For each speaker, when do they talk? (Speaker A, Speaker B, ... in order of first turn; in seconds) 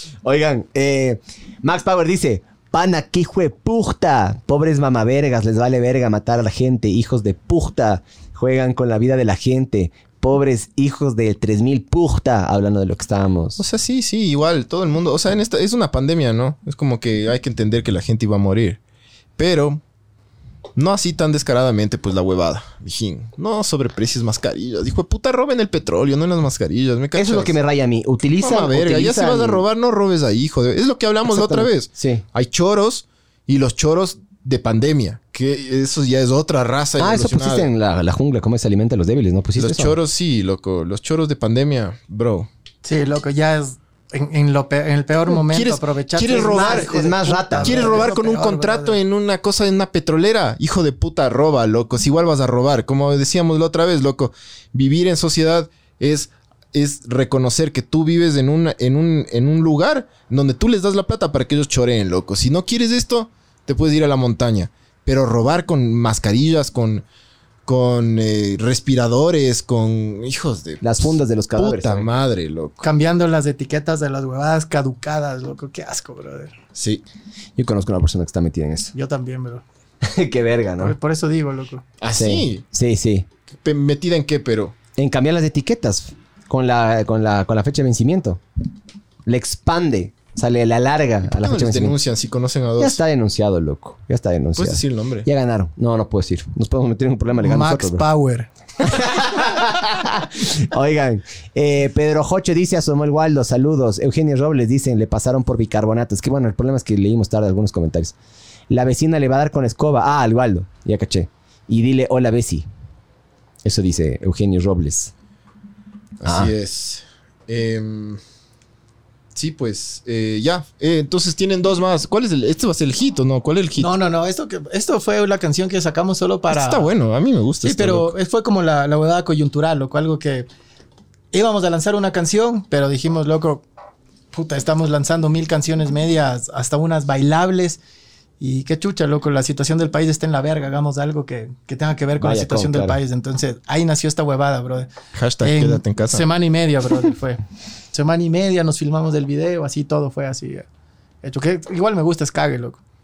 Speaker A: 0.2-13.6, 27.1-29.6, 31.2-32.2, 37.0-40.0, 46.4-48.1, 70.8-72.1, 77.5-78.9, 80.0-81.0, 82.1-83.3, 85.0-88.4, 89.3-92.0, 92.8-98.0, 98.8-108.1, 108.7-112.7, 113.6-115.1, 116.3-116.5, 142.2-143.0
Speaker B: 13.6-18.8, 19.4-19.8, 20.8-27.6, 28.4-37.7, 39.6-42.5, 45.4-67.0, 67.7-72.8, 76.7-77.0, 82.0-82.6, 83.5-84.8, 91.3-93.0, 94.5-95.3, 116.2-118.2, 119.3-123.9, 126.5-128.1, 145.1-146.3
Speaker C: 42.8-49.0, 72.8-76.5, 78.9-79.6, 80.8-81.8, 97.4-98.5, 123.8-126.9, 127.6-130.5, 131.3-133.6, 134.3-137.8, 138.4-147.4, 147.9-150.7, 151.2-152.8